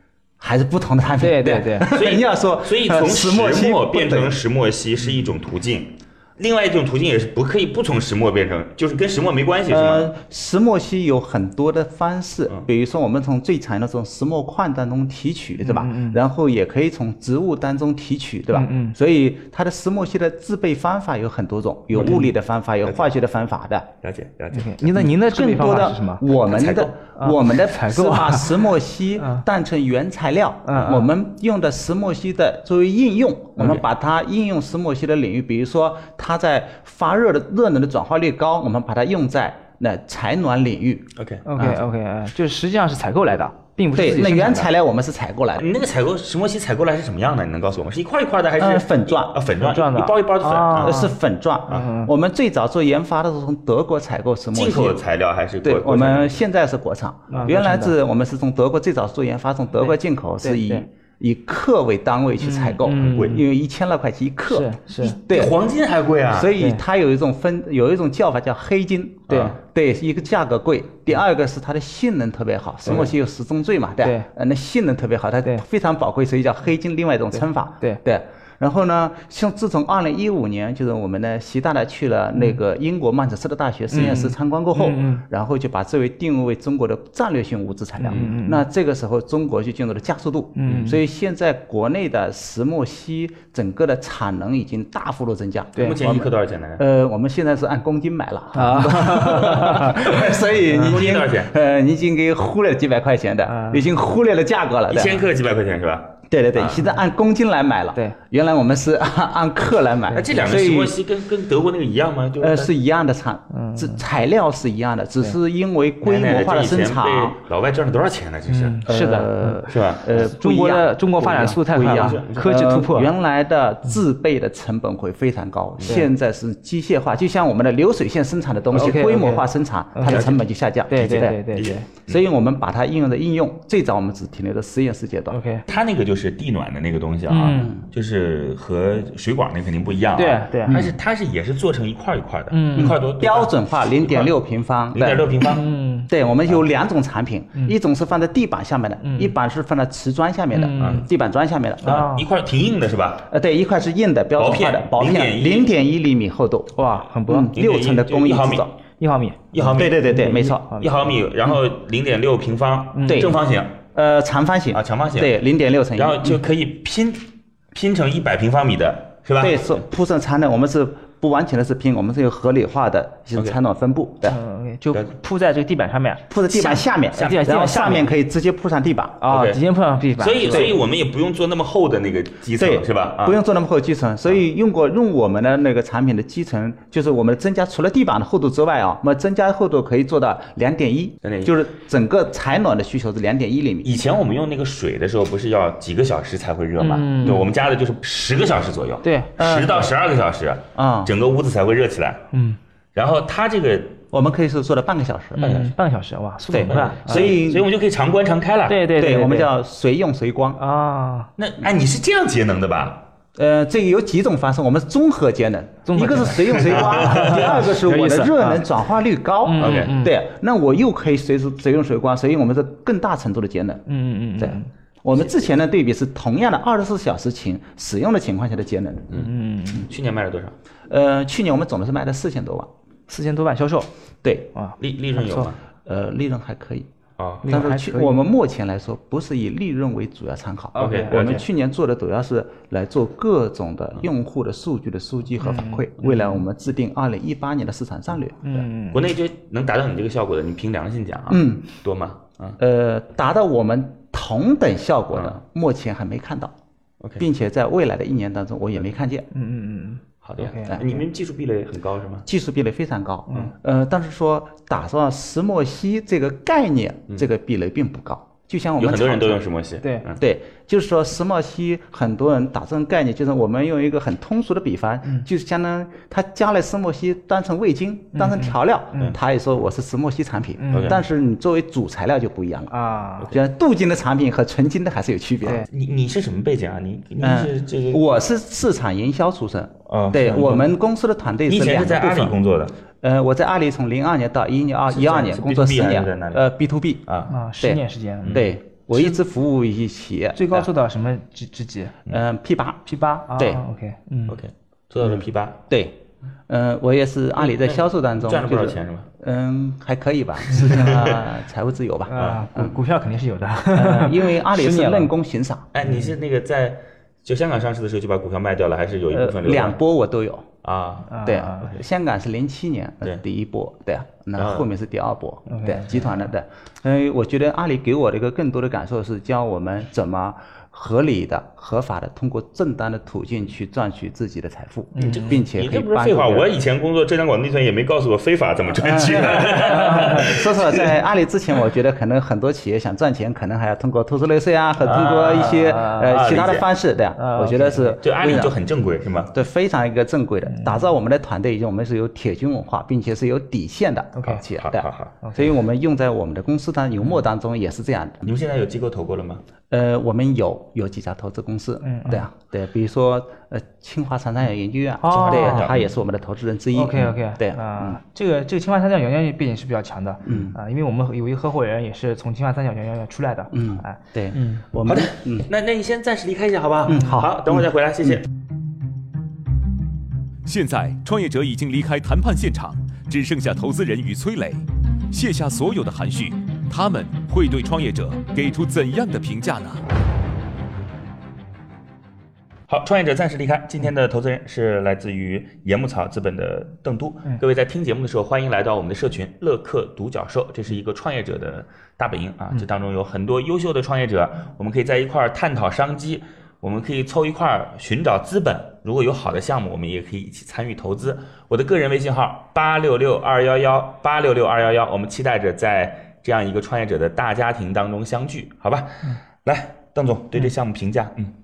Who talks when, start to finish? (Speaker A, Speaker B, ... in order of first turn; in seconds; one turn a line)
Speaker A: 0.4-4.4
Speaker B: 1.2-1.9
Speaker C: 1.9-10.1
Speaker A: 9.7-23.9
Speaker B: 15.6-16.2
Speaker B: 18.5-18.9
Speaker B: 21.9-22.3
Speaker C: 24.0-24.9
Speaker B: 24.5-26.2
Speaker A: 24.9-41.8
Speaker C: 26.3-26.9
Speaker B: 27.2-28.6
Speaker B: 29.2-29.4
Speaker B: 30.6-31.1
Speaker C: 41.1-41.4
Speaker B: 41.5-44.7
Speaker A: 43.9-45.6
Speaker C: 45.6-51.0
Speaker A: 48.6-49.4
Speaker B: 49.6-51.1
Speaker A: 50.7-55.0
Speaker B: 51.7-52.1
Speaker C: 54.5-56.4
Speaker A: 55.6-65.6
Speaker B: 57.3-57.9
Speaker B: 59.8-60.8
Speaker B: 62.4-63.4
Speaker C: 62.9-63.4
Speaker B: 64.5-65.2
Speaker C: 65.3-66.5
Speaker A: 66.3-105.2
Speaker C: 69.3-69.6
Speaker B: 74.0-74.3
Speaker B: 77.3-78.0
Speaker B: 83.9-85.2
Speaker B: 88.0-88.6
Speaker B: 90.5-91.0
Speaker C: 95.8-96.8
Speaker B: 98.5-100.1
Speaker B: 100.7-101.0
Speaker C: 100.7-101.5
Speaker B: 103.5-103.8
Speaker C: 104.9-106.8
Speaker A: 106.3-111.0
Speaker C: 110.1-112.7
Speaker A: 112.4-117.4
Speaker B: 113.5-114.0
Speaker C: 116.0-118.8
Speaker B: 118.5-123.1
Speaker A: 118.9-131.4
Speaker C: 119.7-120.3
Speaker C: 121.7-122.5
Speaker B: 128.8-130.3
Speaker C: 130.0-130.4
Speaker B: 130.9-131.9
Speaker C: 131.0-132.2
Speaker A: 132.1-135.4
Speaker B: 135.3-135.6
Speaker C: 135.7-144.3
Speaker B: 137.3-137.7
Speaker A: 137.5-137.8
Speaker B: 140.2-140.8
Speaker A: 140.7-140.9
Speaker B: 142.5-142.9
Speaker A: 142.8-145.5
Speaker C: 144.9-145.6
Speaker B: 145.5-146.1
Speaker A: 146.1-152.0
Speaker B: 149.0-149.3
Speaker B: 150.5-151.0
Speaker C: 150.8-151.1
Speaker B: 151.8-152.2
Speaker C: 151.8-153.3
Speaker A: 153.3-158.7
Speaker C: 154.4-155.7
Speaker B: 156.8-157.5
Speaker C: 157.5-158.7
Speaker B: 159.0-161.1
Speaker C: 159.5-160.0
Speaker A: 159.6-160.7
Speaker C: 160.8-163.8
Speaker B: 162.9-163.3
Speaker A: 163.1-163.4
Speaker A: 163.9-166.4
Speaker C: 164.7-165.3
Speaker C: 165.9-169.8
Speaker A: 169.4-174.4
Speaker B: 174.3-178.1
Speaker A: 176.3-179.2
Speaker C: 177.2-177.5
Speaker B: 179.2-180.7
Speaker C: 179.3-179.6
Speaker C: 180.2-183.4
Speaker A: 180.5-180.8
Speaker A: 182.6-193.9
Speaker C: 191.2-191.5
Speaker C: 193.8-202.2
Speaker B: 196.8-197.4
Speaker B: 199.0-199.3
Speaker A: 199.4-199.9
Speaker A: 200.7-201.1
Speaker B: 202.3-202.6
Speaker C: 202.9-204.0
Speaker A: 204.1-205.5
Speaker B: 205.4-207.3
Speaker C: 205.4-205.7
Speaker A: 206.5-207.7
Speaker C: 206.6-208.8
Speaker B: 208.7-209.5
Speaker A: 208.9-210.6
Speaker B: 210.6-211.3
Speaker C: 211.4-213.0
Speaker A: 213.3-223.8
Speaker B: 215.9-218.6
Speaker C: 216.4-217.7
Speaker B: 219.4-220.1
Speaker C: 219.6-219.9
Speaker B: 223.9-224.7
Speaker A: 224.4-229.2
Speaker C: 229.1-230.5
Speaker B: 229.2-229.8
Speaker A: 230.9-232.7
Speaker B: 233.1-233.9
Speaker A: 234.2-234.5
Speaker B: 234.5-235.5
Speaker C: 234.8-235.6
Speaker A: 235.8-236.9
Speaker C: 237.2-237.5
Speaker B: 237.4-238.2
Speaker A: 237.4-248.6
Speaker B: 240.7-241.4
Speaker C: 240.8-241.4
Speaker B: 245.4-246.4
Speaker B: 248.4-249.0
Speaker C: 248.9-252.6
Speaker A: 251.3-251.7
Speaker A: 252.6-256.5
Speaker A: 257.2-259.3
Speaker B: 259.3-260.8
Speaker C: 260.2-262.2
Speaker A: 262.2-269.4
Speaker C: 268.8-270.2
Speaker A: 270.2-285.6
Speaker B: 278.1-279.1
Speaker B: 280.6-280.9
Speaker C: 280.7-281.0
Speaker B: 282.7-283.3
Speaker C: 285.7-288.0
Speaker A: 287.2-292.4
Speaker C: 289.9-290.7
Speaker C: 291.5-292.7
Speaker A: 293.0-297.1
Speaker C: 294.9-296.5
Speaker C: 297.1-297.3
Speaker B: 297.3-298.4
Speaker A: 297.6-300.7
Speaker B: 300.3-301.9
Speaker A: 302.1-303.6
Speaker B: 302.9-304.4
Speaker C: 304.3-305.6
Speaker A: 305.0-312.8
Speaker C: 307.4-309.1
Speaker C: 310.5-311.2
Speaker B: 312.1-315.1
Speaker C: 312.2-312.4
Speaker A: 313.7-315.7
Speaker C: 315.7-319.8
Speaker A: 319.1-320.5
Speaker C: 320.6-321.1
Speaker B: 321.1-321.7
Speaker A: 321.2-336.5
Speaker C: 324.4-324.7
Speaker B: 325.5-326.0
Speaker B: 334.9-335.4
Speaker C: 335.0-340.9
Speaker A: 338.8-348.6
Speaker B: 339.6-340.2
Speaker C: 344.8-346.7
Speaker B: 344.9-346.1
Speaker B: 347.2-348.1
Speaker C: 348.0-349.3
Speaker A: 349.3-358.3
Speaker B: 350.5-350.8
Speaker B: 354.1-354.4
Speaker C: 354.3-355.1
Speaker B: 355.2-355.5
Speaker C: 358.2-359.4
Speaker A: 359.7-368.0
Speaker B: 361.8-362.2
Speaker B: 365.0-365.7
Speaker C: 365.1-365.9
Speaker B: 366.7-374.6
Speaker A: 370.2-370.5
Speaker A: 373.5-375.5
Speaker C: 374.8-378.2
Speaker A: 376.9-378.2
Speaker D: 380.4-389.8
Speaker C: 392.7-421.3